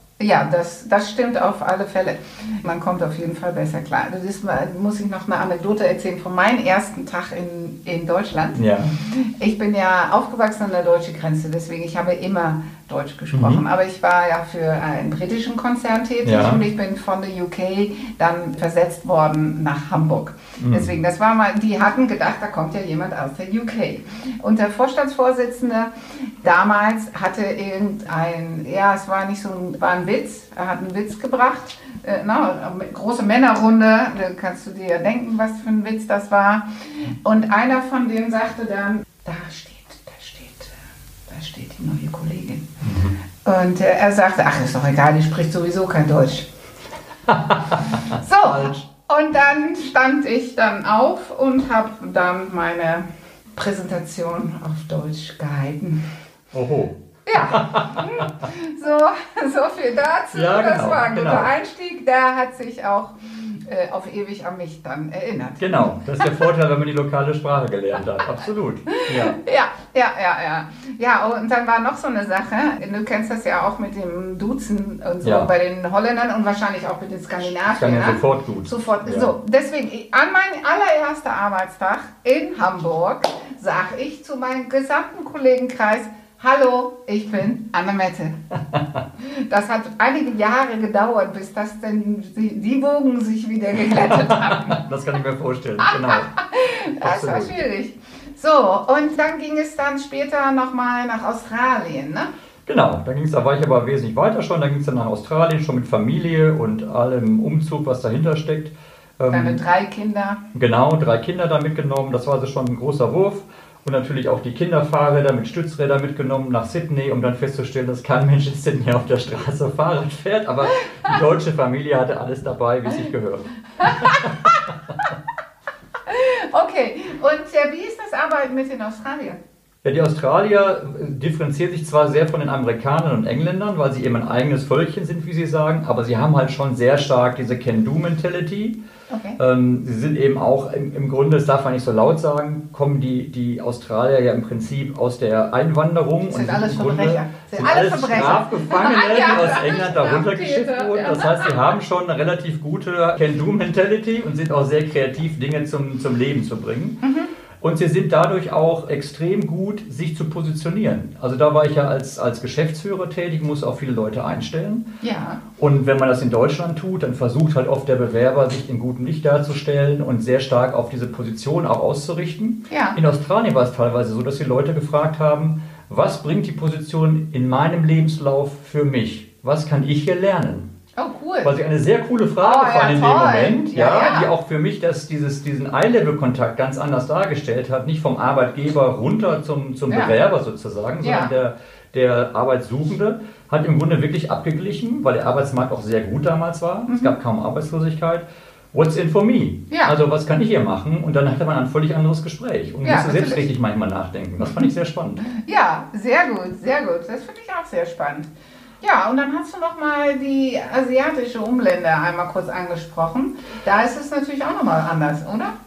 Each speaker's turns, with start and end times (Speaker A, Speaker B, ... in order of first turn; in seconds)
Speaker A: 0.2-42.8, 43.4-46.5, 48.1-56.0, 57.3-66.4, 68.9-88.4, 89.2-94.8, 95.8-102.3, 109.3-110.4, 123.8-124.3, 126.0-129.4, 139.1-139.4, 146.3-151.5, 157.0-157.3, 165.0-165.4, 172.7-173.0, 181.0-181.5, 182.4-184.3, 189.9-190.1, 191.0-191.3, 196.9-197.2, 199.7-199.9, 202.8-203.4, 205.3-215.5
Speaker B: 8.5-8.9, 13.3-13.6, 16.2-16.6, 20.6-20.9, 42.8-43.1, 47.3-47.9, 48.5-48.8, 56.5-58.3, 60.3-61.5, 65.6-69.4, 75.2-75.5, 77.7-79.3, 88.7-89.0, 93.8-96.3, 97.0-97.5, 102.7-109.6, 110.5-124.9, 129.8-138.8, 139.4-157.0, 157.6-164.9, 165.6-180.7, 181.4-205.2